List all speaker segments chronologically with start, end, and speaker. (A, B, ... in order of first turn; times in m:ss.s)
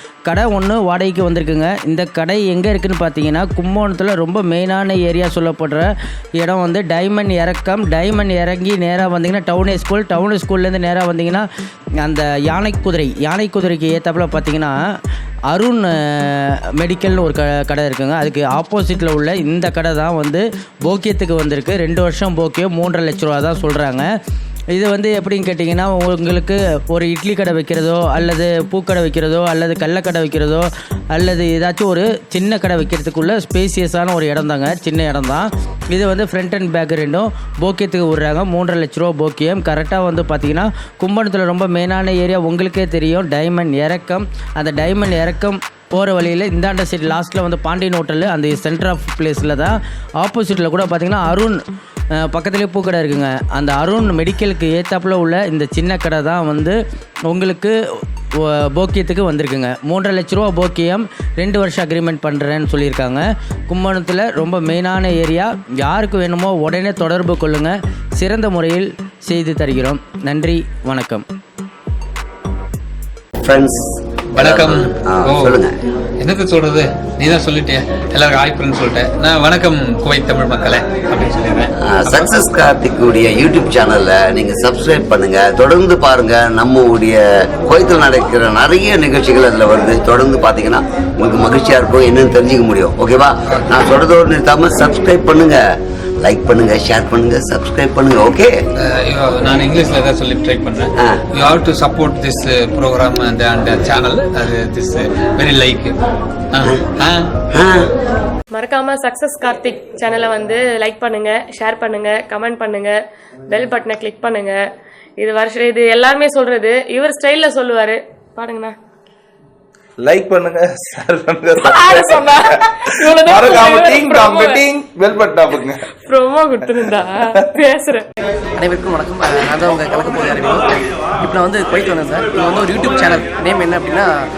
0:00.3-0:11.5 A
0:12.0-0:14.8 A
0:15.5-0:24.1 A
0:24.7-0:51.6 A
0:52.2-0:56.8 A
0:57.3-0:57.7 A
0:58.4-1:11.2 A
1:13.4-1:15.7 B
1:14.4-1:15.6 C
1:16.2-1:22.3 C
1:21.8-1:35.6 B
1:33.5-1:33.8 C
1:36.2-1:38.5 B
1:38.8-1:46.0 C
1:46.5-1:47.3 C
1:47.5-1:47.9 B
1:48.5-1:53.0 D
1:53.5-1:54.6 D
1:55.2-1:58.8 D
2:00.0-2:05.8 E
2:01.6-2:04.6 D
2:06.0-2:08.0 D
2:08.6-2:10.6 F
2:11.2-2:14.1 F